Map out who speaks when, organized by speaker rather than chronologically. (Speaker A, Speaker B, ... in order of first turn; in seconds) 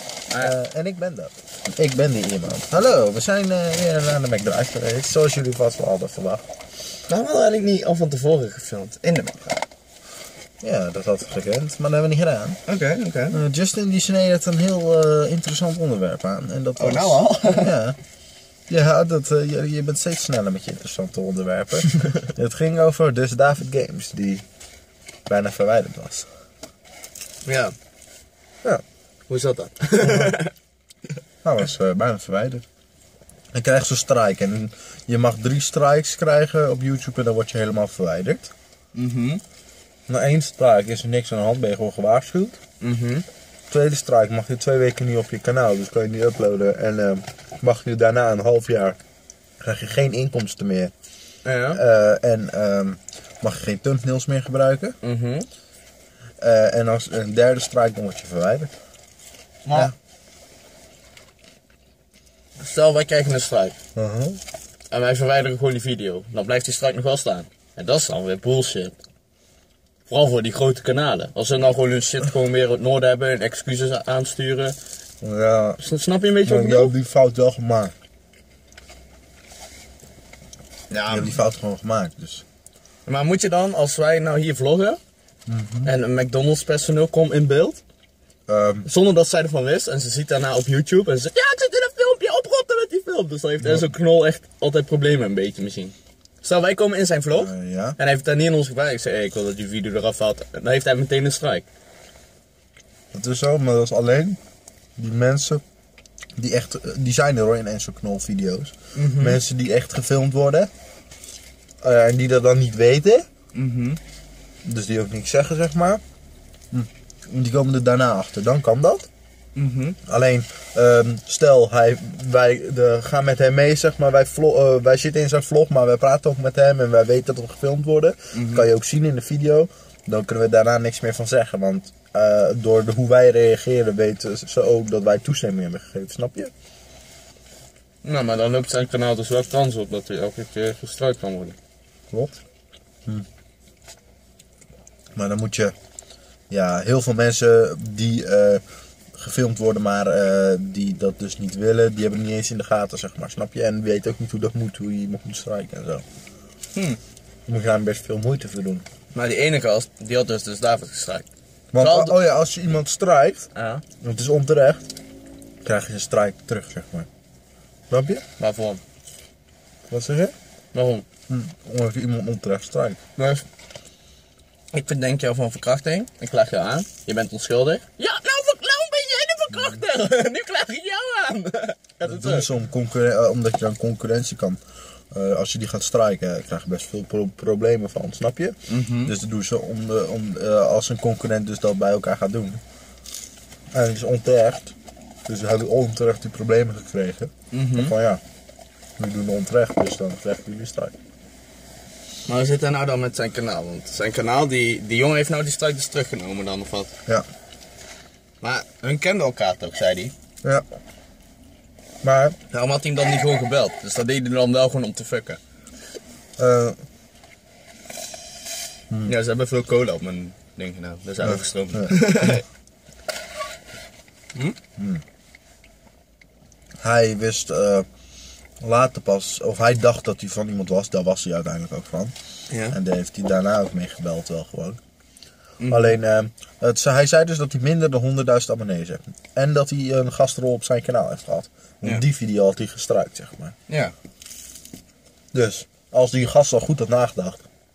Speaker A: 0.4-6.4, 10.6-12.6, 13.3-18.0, 18.7-24.4, 25.3-26.3, 30.0-30.3, 31.4-32.6, 33.5-38.5, 40.1-42.6, 43.7-49.0, 49.6-50.9, 51.7-55.0, 56.4-58.7, 63.9-64.4, 75.2-75.8, 76.4-77.9, 81.1-82.4, 85.5-85.9, 88.5-88.9, 93.6-93.9, 97.3-98.0, 103.1-104.4, 105.0-105.6, 106.3-110.7, 111.8-113.3, 114.6-116.0, 116.7-119.1, 120.0-136.5, 142.1-142.4, 145.1-145.7, 146.5-148.6, 149.1-156.0, 157.5-158.8, 161.7-163.5, 164.0-164.9, 165.6-167.1, 167.9-168.2, 169.9-170.3, 171.3-173.0, 179.5-179.8, 182.1-192.6, 193.7-198.2, 199.0-200.9, 212.0-212.3, 216.4-216.8, 221.2-222.0, 224.8-225.0, 226.8-227.9, 228.6-232.1, 232.7-234.8, 235.7-243.5, 245.3-247.4
Speaker B: 7.1-9.6, 12.7-13.4, 16.8-17.7, 27.4-27.7, 29.3-30.5, 38.9-39.4, 42.8-43.2, 51.4-51.8, 55.0-55.5, 59.6-59.9, 62.6-63.8, 64.9-69.0, 70.1-74.8, 75.8-76.9, 80.9-81.3, 83.0-85.0, 85.8-87.8, 88.8-101.7, 108.9-109.4, 113.5-114.0, 119.5-120.0, 128.3-128.7, 138.0-141.6, 156.7-157.0, 159.1-161.2, 161.8-162.2, 163.5-163.8, 168.4-168.8, 170.7-171.1, 173.2-173.4, 174.7-182.5, 188.7-189.1, 197.5-197.9, 202.2-206.9, 208.4-210.1, 212.5-215.4, 219.0-222.4, 232.5-232.8, 235.6-235.9, 243.7-243.9